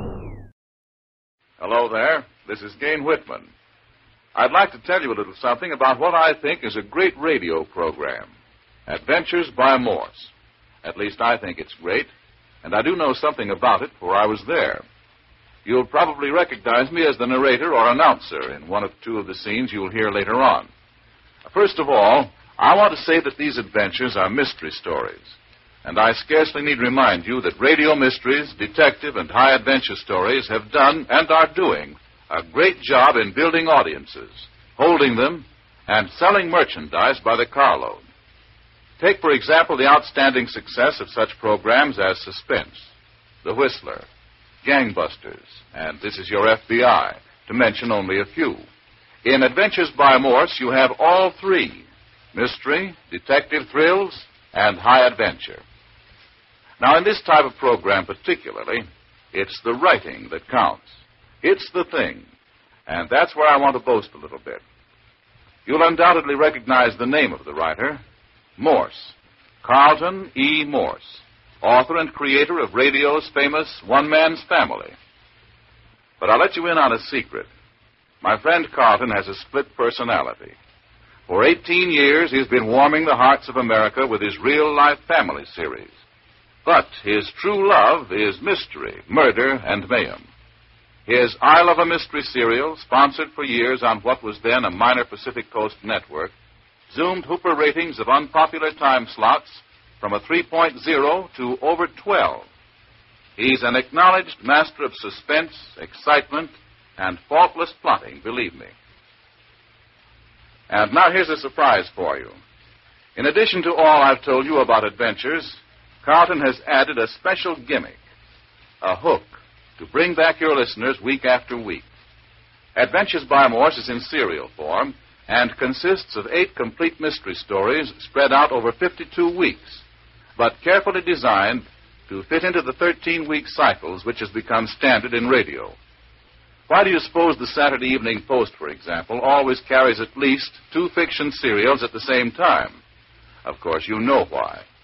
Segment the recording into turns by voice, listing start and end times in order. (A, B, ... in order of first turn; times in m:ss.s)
0:01.6-0:03.5 A
0:04.4-0:08.3 A
0:08.9-0:10.3 A
0:10.8-0:12.1 A
0:12.6-0:14.8 A
0:15.6-0:20.7 A
0:21.4-0:38.0 A
0:39.0-0:42.9 A
0:43.4-0:44.0 A
0:44.6-0:48.6 A
0:49.2-0:55.6 A
0:56.8-1:02.3 A
1:02.9-1:04.6 A
1:05.7-1:08.0 A
1:08.6-1:14.9 A
1:16.2-1:17.5 A
1:18.2-1:20.6 A
1:21.3-1:25.9 A
1:26.6-1:30.2 A
1:31.1-1:36.3 A
1:36.9-1:42.5 A
1:43.4-1:48.7 A
1:50.7-1:52.4 A
1:53.2-1:58.0 A
1:58.8-2:01.8 A
2:02.8-2:09.8 A
2:10.4-2:15.8 A
2:16.7-2:22.8 A
2:23.4-2:24.6 A